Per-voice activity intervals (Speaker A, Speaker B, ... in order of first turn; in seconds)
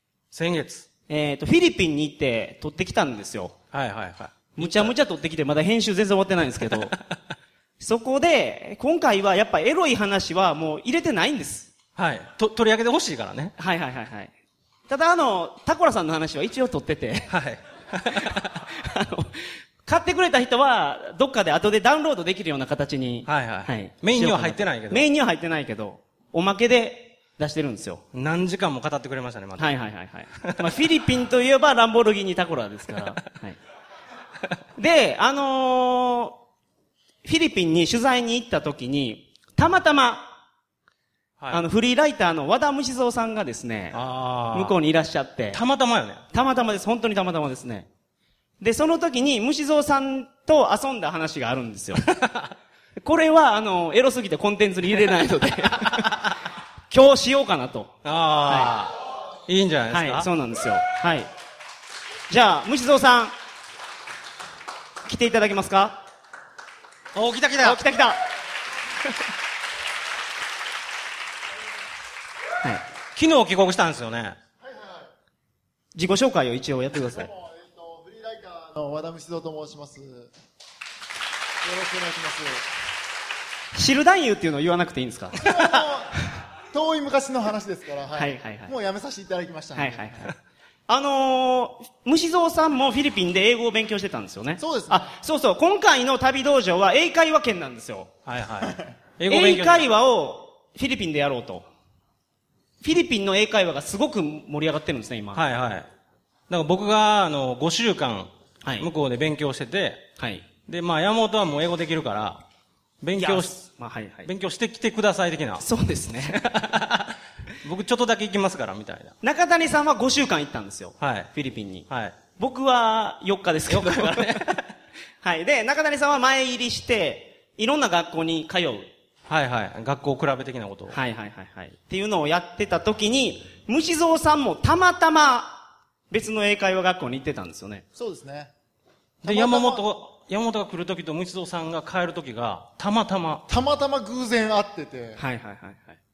Speaker A: 0.3-0.9, 3.7-4.9, 11.9-13.5, 17.3-18.6, 23.2-25.1, 28.1-29.8, 30.4-30.7, 43.9-44.8, 45.5-46.2, 52.0-52.5, 55.9-56.3, 58.0-58.9, 59.5-60.3, 67.1-67.8, 73.1-74.4, 98.2-99.9, 105.3-105.9, 106.5-110.1, 110.7-112.4, 113.0-113.7, 114.2-115.7, 116.3-119.1, 121.0-121.3, 121.9-122.2, 123.7-124.6, 129.3-131.0, 139.2-143.4
Speaker B: 1.1-3.5, 4.6-7.0, 7.8-11.7, 13.6-14.3, 14.9-17.3, 18.7-28.0, 29.6-33.6, 34.8-36.4, 37.2-40.3, 41.5-44.0, 44.5-45.6, 46.3-47.9, 48.6-52.0, 53.0-56.2, 56.9-57.9, 58.5-58.7, 59.9-61.3, 62.3-63.3, 65.0-66.0, 67.6-68.2, 75.9-77.3, 83.7-85.8, 88.1-88.7, 89.7-90.3, 90.9-98.1, 99.3-101.7, 102.8-105.4, 108.6-108.9, 110.2-110.4, 113.2-114.3, 115.6-116.4, 119.2-124.5, 125.2-128.9, 130.9-137.8, 145.2-146.0
Speaker C: 74.6-75.1, 77.1-80.3, 81.6-82.7, 85.4-86.1, 86.7-90.1, 94.6-95.1, 98.6-98.9, 137.9-138.5, 139.2-139.8, 143.5-145.2